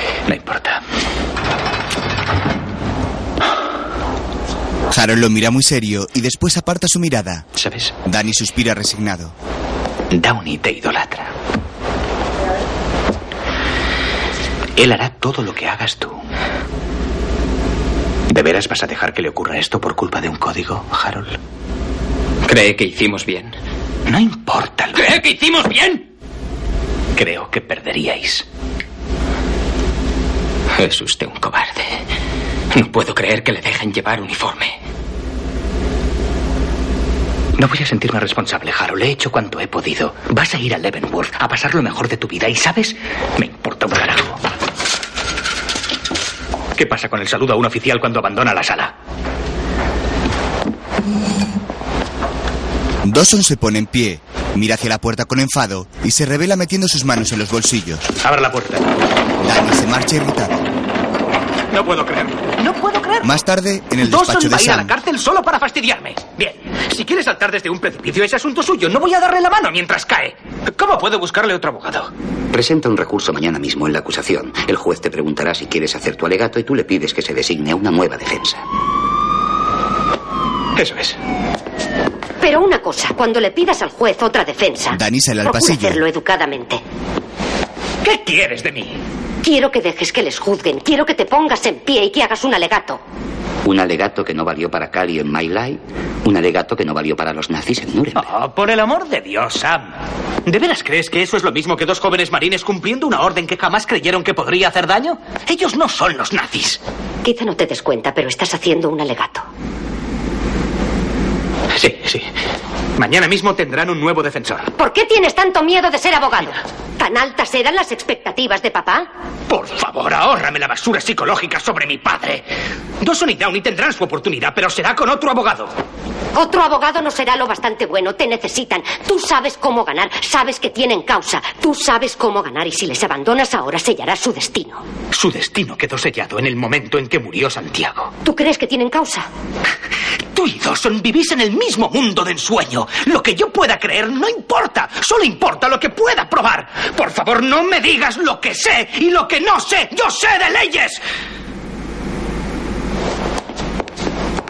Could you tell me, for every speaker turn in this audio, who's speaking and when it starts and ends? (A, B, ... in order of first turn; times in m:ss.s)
0:00.3-0:00.8 A
0:04.9-0:07.5 B
0:07.6-0:07.9 A
0:08.0-0:09.3 B
0:10.1-0:11.3 A
0:14.8-0:16.2 A
0:18.3-0:21.4 A
0:22.4-0:23.6 C
0:24.1-0:25.9 A
0:25.0-0:25.9 C
0:27.2-0:28.4 A
0:30.7-0:32.0 C
0:32.7-0:34.8 C
0:37.6-0:44.4 A
0:46.8-0:48.9 A
0:53.0-0:58.1 B
0:58.2-0:59.0 A
0:59.4-1:00.7 B
1:01.7-1:03.3 A
1:03.2-1:05.0 B
1:04.0-1:12.1 A
1:12.5-1:18.6 D
1:20.8-1:21.2 A
1:22.4-1:26.8 E
1:24.9-1:26.0 B
1:28.0-1:29.0 A
1:29.4-1:33.0 E
1:33.6-1:38.3 D
1:38.2-1:40.0 A
1:40.5-1:46.8 A
1:47.2-1:49.4 E
1:51.7-1:52.3 A
1:53.0-1:54.7 A
1:54.8-1:59.1 E
1:59.5-2:02.4 A
2:03.0-2:05.7 A
2:06.4-2:14.8 E
2:15.1-2:18.1 A
2:18.2-2:19.3 E
2:20.3-2:31.0 A